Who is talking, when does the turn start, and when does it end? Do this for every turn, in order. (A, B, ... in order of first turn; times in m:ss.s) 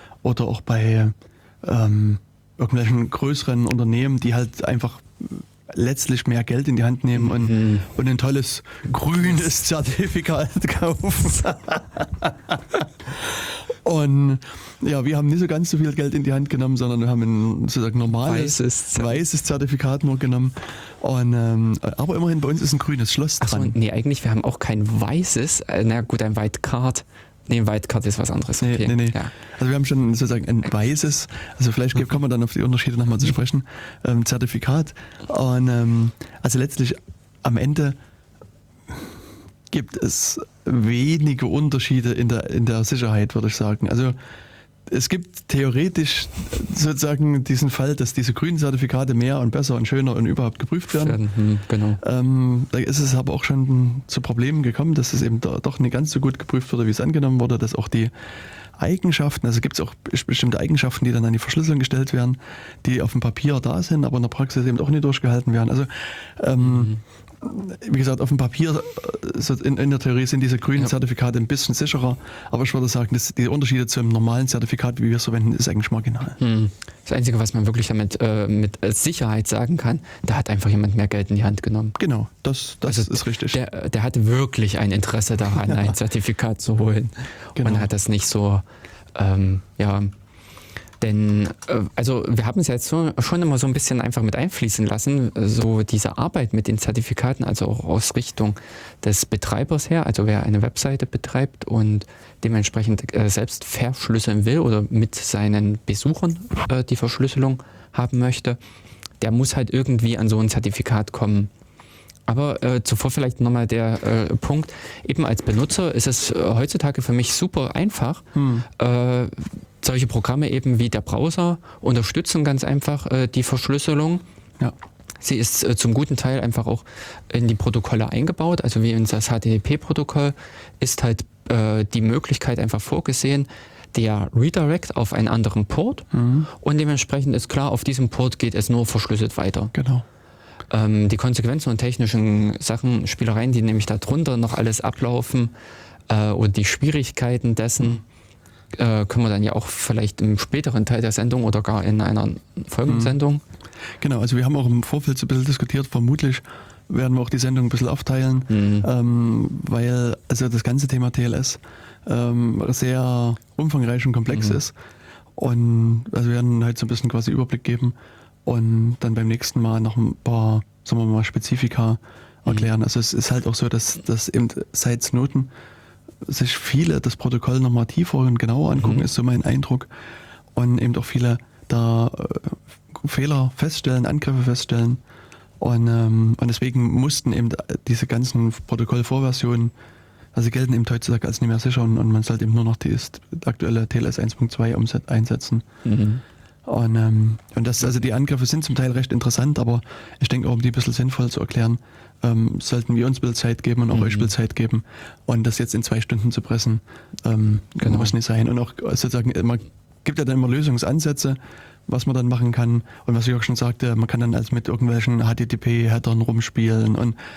0:00.2-0:23.8 A
0:07.2-0:07.9 B
0:18.2-0:19.2 B
0:23.4-0:29.3 B
0:28.6-0:38.0 A
0:39.7-0:44.2 A
0:44.9-0:51.2 A
0:51.0-0:52.0 B
0:52.0-0:58.1 A
0:58.8-1:16.4 A
1:06.6-1:07.0 B
1:16.4-1:22.0 B
1:22.0-1:23.6 A
1:22.9-1:28.6 B
1:25.6-1:25.9 A
1:27.6-1:27.9 A
1:29.2-1:30.1 B
1:31.0-1:48.6 B
1:49.2-1:51.5 B
1:52.3-2:04.2 B
1:58.4-1:58.7 A
2:05.2-2:16.1 B
2:16.1-2:16.5 A
2:16.6-2:19.7 B
2:19.7-2:20.0 A
2:20.7-2:25.5 B
2:26.1-2:28.0 B
2:28.8-2:33.4 B
2:32.9-2:33.2 A
2:34.0-2:44.8 A
2:38.5-2:38.9 B
2:45.4-2:55.5 A
2:56.2-2:59.9 A
2:58.8-2:59.0 B
3:00.6-3:05.0 A
3:05.6-3:09.7 A
3:10.3-3:15.7 A
3:15.8-3:16.2 B
3:16.7-3:37.2 A
3:23.9-3:24.3 B
3:27.8-3:28.1 B